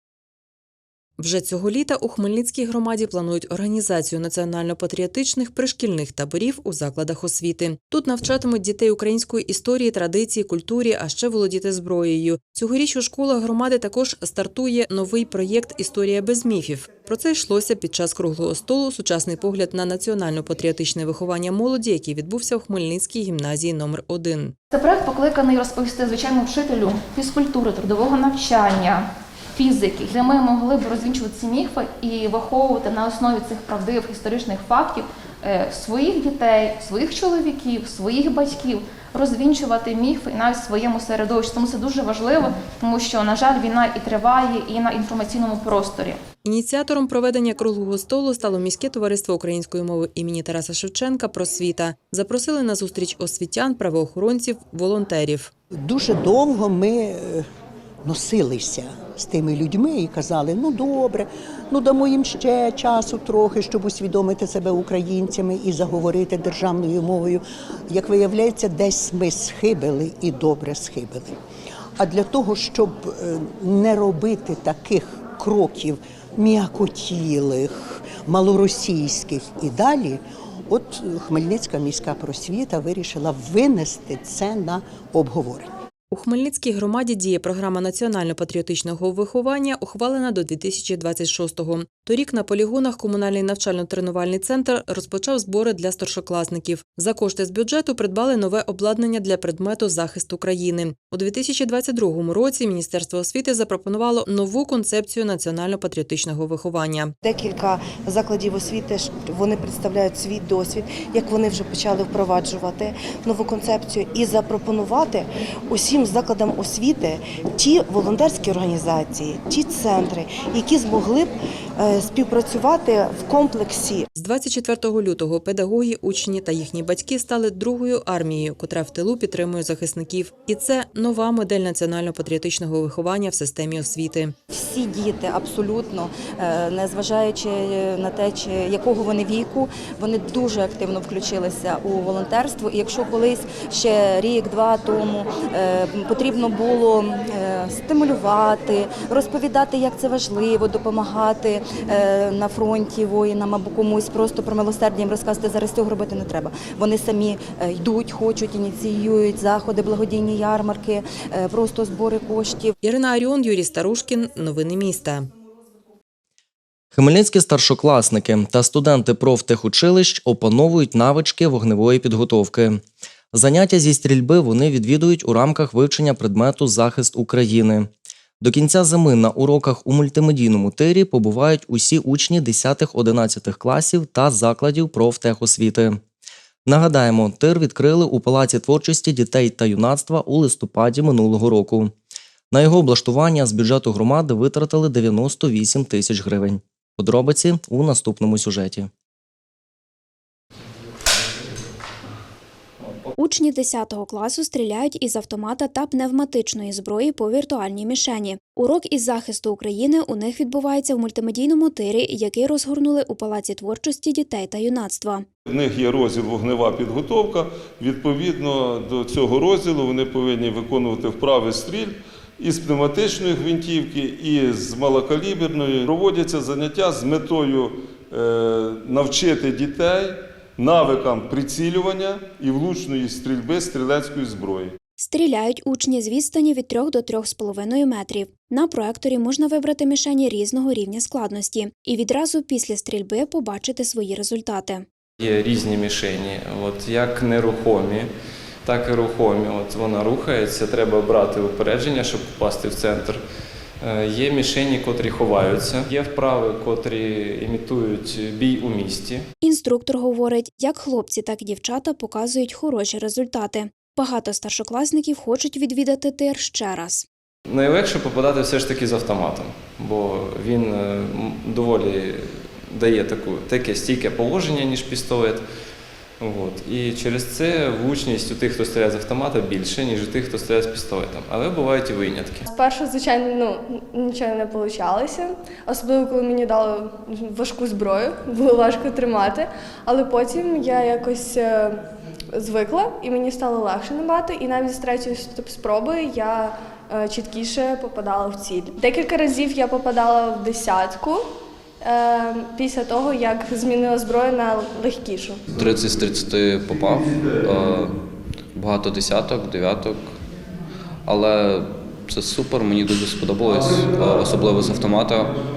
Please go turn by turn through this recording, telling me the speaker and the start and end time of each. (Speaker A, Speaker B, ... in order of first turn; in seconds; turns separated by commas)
Speaker A: 1.2-24.5, Speaker B: 24.7-46.2, Speaker A: 46.4-55.5, Speaker C: 55.9-57.4, Speaker C: 58.0-71.3, Speaker C: 72.0-85.7, Speaker A: 86.1-107.1, Speaker D: 107.2-115.2, Speaker D: 115.8-121.3, Speaker D: 121.8-124.0, Speaker A: 124.2-134.3, Speaker E: 134.5-162.7, Speaker A: 162.8-165.3, Speaker F: 166.9-172.8, Speaker F: 173.3-177.9, Speaker F: 178.4-186.0, Speaker F: 186.7-191.9, Speaker F: 192.5-198.9, Speaker G: 203.2-215.2, Speaker H: 215.5-234.8, Speaker G: 235.0-244.8, Speaker I: 245.2-248.1, Speaker I: 248.6-253.2, Speaker I: 253.8-259.2, Speaker G: 259.4-267.1, Speaker I: 267.5-275.4, Speaker I: 276.2-282.4, Speaker J: 282.5-291.8, Speaker J: 292.4-301.2, Speaker J: 301.9-305.4, Speaker K: 305.6-307.9, Speaker K: 308.6-310.0, Speaker K: 311.1-315.3